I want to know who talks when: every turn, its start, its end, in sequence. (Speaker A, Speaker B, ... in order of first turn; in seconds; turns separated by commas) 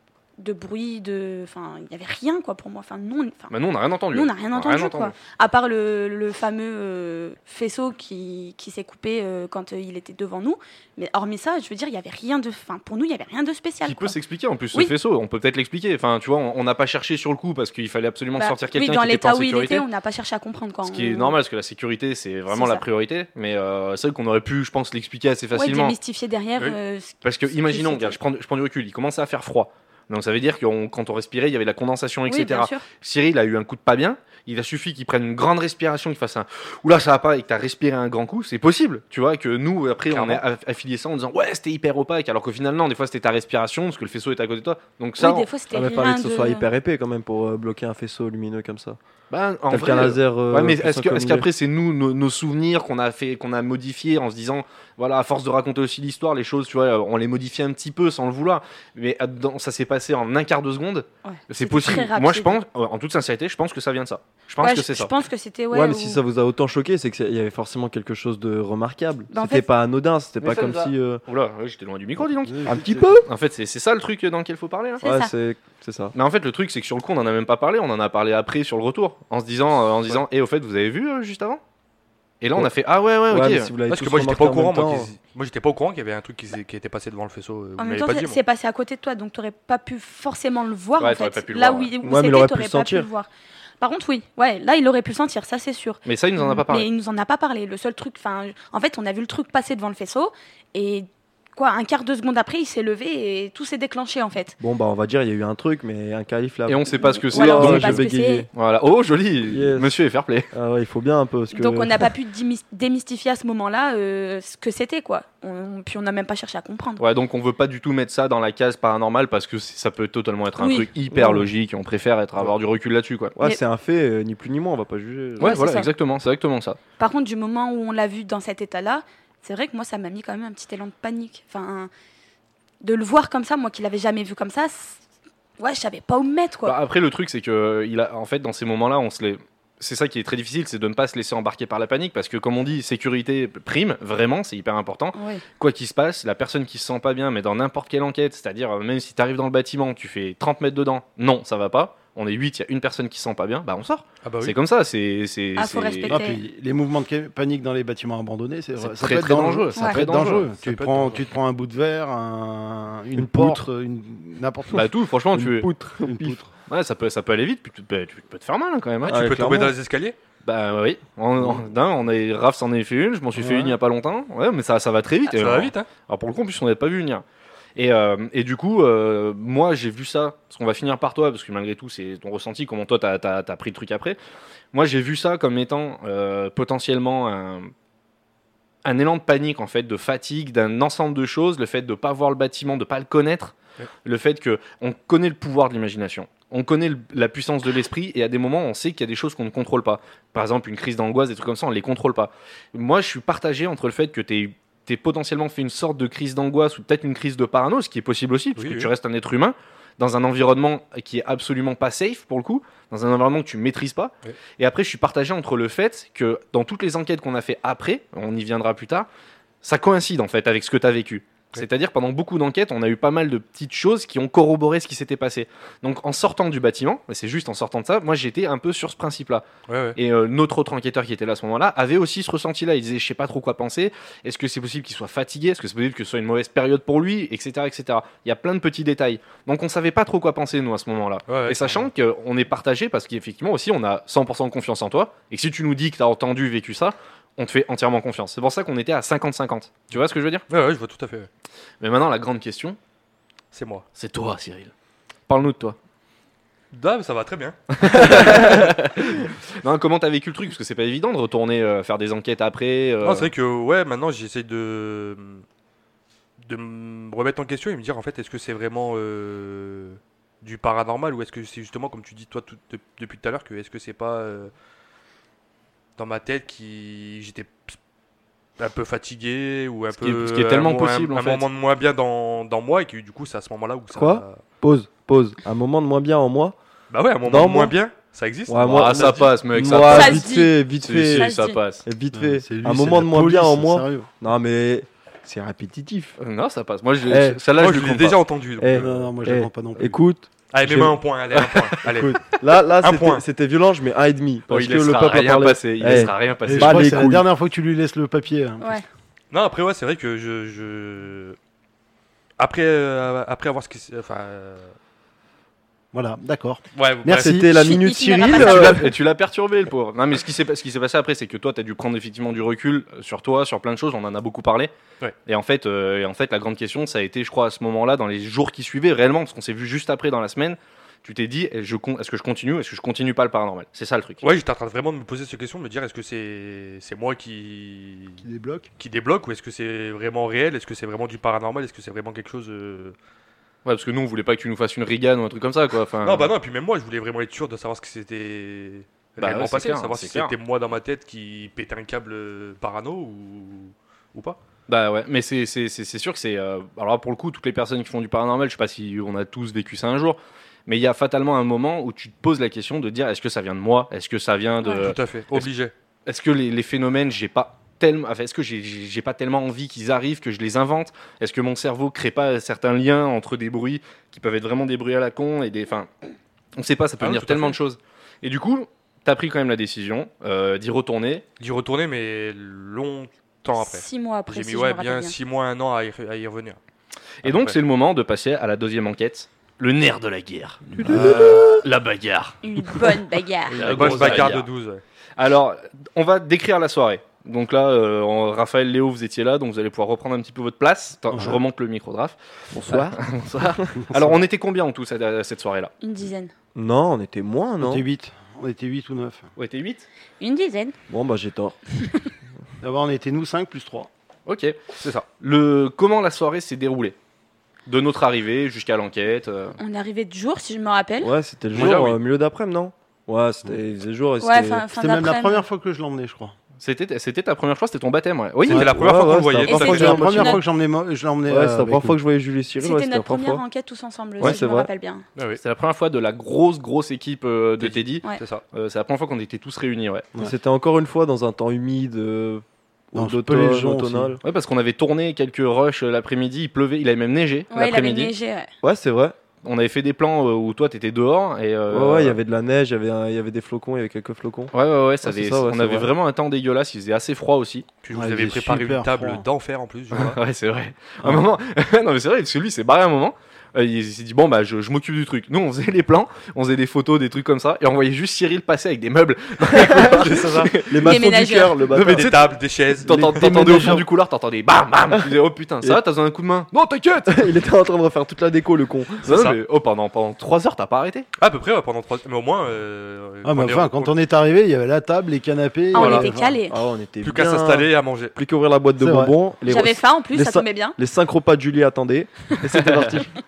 Speaker A: 0.4-3.5, Speaker B: 3.5-5.1, Speaker A: 4.1-14.1, Speaker B: 13.8-19.9, Speaker A: 18.4-21.4, Speaker B: 20.8-25.9, Speaker A: 22.5-22.8, Speaker A: 25.5-28.2, Speaker B: 27.2-45.5, Speaker A: 32.3-32.8, Speaker C: 40.1-40.4, Speaker A: 45.2-46.7, Speaker D: 45.7-49.0, Speaker B: 49.3-65.1, Speaker D: 49.7-51.5, Speaker A: 61.2-62.6, Speaker A: 64.6-66.2, Speaker D: 65.7-71.2, Speaker A: 69.3-69.6, Speaker B: 70.4-75.0, Speaker E: 72.5-73.1, Speaker D: 72.6-73.3, Speaker A: 75.0-75.3, Speaker D: 75.0-76.1, Speaker B: 76.1-81.6, Speaker B: 82.4-83.7, Speaker D: 83.3-85.1, Speaker C: 83.9-88.4, Speaker A: 87.8-93.3, Speaker B: 91.0-91.9, Speaker D: 92.0-93.1, Speaker A: 93.8-104.5, Speaker B: 96.0-96.9, Speaker D: 104.6-108.5, Speaker B: 106.7-110.5, Speaker A: 107.0-108.5, Speaker D: 109.5-109.9, Speaker D: 110.5-112.1, Speaker A: 111.5-117.0, Speaker B: 117.0-123.3, Speaker A: 120.6-120.9, Speaker D: 121.1-121.5, Speaker D: 123.3-125.6, Speaker B: 125.4-126.8, Speaker A: 125.4-125.9, Speaker A: 127.0-131.9, Speaker A: 132.8-135.0, Speaker A: 135.6-136.8, Speaker B: 136.6-156.2, Speaker A: 145.1-145.4, Speaker C: 154.2-154.6, Speaker A: 155.6-156.4, Speaker E: 156.1-164.9, Speaker B: 158.8-160.5, Speaker C: 160.6-161.2, Speaker D: 163.1-163.7, Speaker B: 164.7-165.7, Speaker D: 165.3-166.4, Speaker E: 166.0-166.5, Speaker B: 166.7-169.3, Speaker D: 169.1-169.7, Speaker C: 169.1-170.2, Speaker B: 170.4-177.2, Speaker E: 173.4-173.7, Speaker C: 175.3-175.9, Speaker B: 177.8-184.2, Speaker B: 184.7-187.7, Speaker B: 188.8-219.1, Speaker C: 208.6-208.9, Speaker B: 219.6-250.4, Speaker C: 229.7-230.0, Speaker C: 241.3-241.9, Speaker C: 250.5-251.3, Speaker B: 251.8-252.8, Speaker C: 253.5-253.8, Speaker B: 253.9-254.7, Speaker B: 255.3-255.8, Speaker C: 256.7-258.6, Speaker B: 257.7-263.3, Speaker C: 263.0-265.4, Speaker C: 266.4-274.5, Speaker C: 276.0-277.8, Speaker C: 278.6-284.4, Speaker B: 279.9-281.4, Speaker D: 283.9-286.5, Speaker C: 286.9-289.3, Speaker D: 287.2-287.7, Speaker D: 288.5-296.1, Speaker B: 288.6-291.8, Speaker A: 289.8-291.6, Speaker E: 292.1-294.1, Speaker B: 296.2-298.2, Speaker D: 297.1-297.4, Speaker C: 297.5-299.0, Speaker D: 298.6-301.0, Speaker E: 298.7-300.0, Speaker C: 300.5-303.2, Speaker B: 301.4-301.6, Speaker D: 301.8-307.3, Speaker B: 304.5-307.0, Speaker E: 305.8-308.8, Speaker C: 309.3-311.4, Speaker C: 312.4-314.8, Speaker E: 315.9-317.6, Speaker C: 316.7-317.4, Speaker D: 317.1-318.9, Speaker A: 317.4-318.9, Speaker B: 318.3-324.7, Speaker B: 325.2-334.2, Speaker C: 334.2-338.2, Speaker E: 338.2-338.7, Speaker C: 338.8-342.9, Speaker B: 343.6-346.3, Speaker C: 346.0-354.4, Speaker B: 349.2-350.3, Speaker B: 354.7-365.5, Speaker C: 364.7-365.7, Speaker B: 366.1-375.9, Speaker B: 376.6-381.2, Speaker C: 377.0-377.6, Speaker C: 381.4-386.6, Speaker A: 383.6-385.1, Speaker B: 387.2-392.4, Speaker C: 387.2-387.6, Speaker D: 390.8-391.2, Speaker E: 390.9-391.4, Speaker A: 392.4-394.1, Speaker B: 393.5-394.5, Speaker C: 393.5-394.8, Speaker B: 395.2-405.7, Speaker D: 402.5-403.0, Speaker A: 405.8-406.3, Speaker D: 406.5-407.8, Speaker E: 407.6-409.2, Speaker B: 409.4-409.9, Speaker A: 410.2-410.7, Speaker D: 410.9-411.6, Speaker E: 412.6-413.9, Speaker B: 414.3-416.9, Speaker C: 414.8-415.1, Speaker B: 417.6-419.6, Speaker A: 419.6-421.1, Speaker D: 421.0-424.7, Speaker C: 421.5-421.9, Speaker A: 424.2-425.4, Speaker E: 424.7-426.3, Speaker B: 426.6-428.7, Speaker C: 428.4-430.1, Speaker E: 428.5-428.8, Speaker D: 428.6-430.4, Speaker A: 429.5-430.4, Speaker E: 429.5-431.9, Speaker D: 431.3-433.4, Speaker A: 432.6-435.1, Speaker D: 434.2-434.7, Speaker C: 435.1-435.4, Speaker B: 435.4-440.1, Speaker C: 437.6-438.4, Speaker D: 440.1-444.2, Speaker E: 442.9-444.2, Speaker B: 444.2-448.1, Speaker A: 447.5-448.5, Speaker D: 448.6-449.1, Speaker B: 449.4-452.2, Speaker D: 451.7-455.9, Speaker B: 454.5-457.6, Speaker C: 457.8-460.2, Speaker E: 457.9-459.2, Speaker B: 459.9-471.0, Speaker D: 469.5-472.3, Speaker C: 470.0-470.5, Speaker A: 470.8-471.6, Speaker B: 471.7-477.2, Speaker C: 471.7-473.3, Speaker D: 472.9-473.8, Speaker E: 473.4-473.8, Speaker D: 474.9-475.8, Speaker D: 477.0-479.0, Speaker B: 479.0-481.1, Speaker C: 479.1-479.4, Speaker C: 481.2-484.0, Speaker E: 483.2-486.4, Speaker A: 485.7-486.6, Speaker C: 485.8-486.1, Speaker D: 486.5-493.1, Speaker C: 487.0-488.1, Speaker E: 488.8-489.1, Speaker A: 489.4-490.8, Speaker B: 492.6-493.0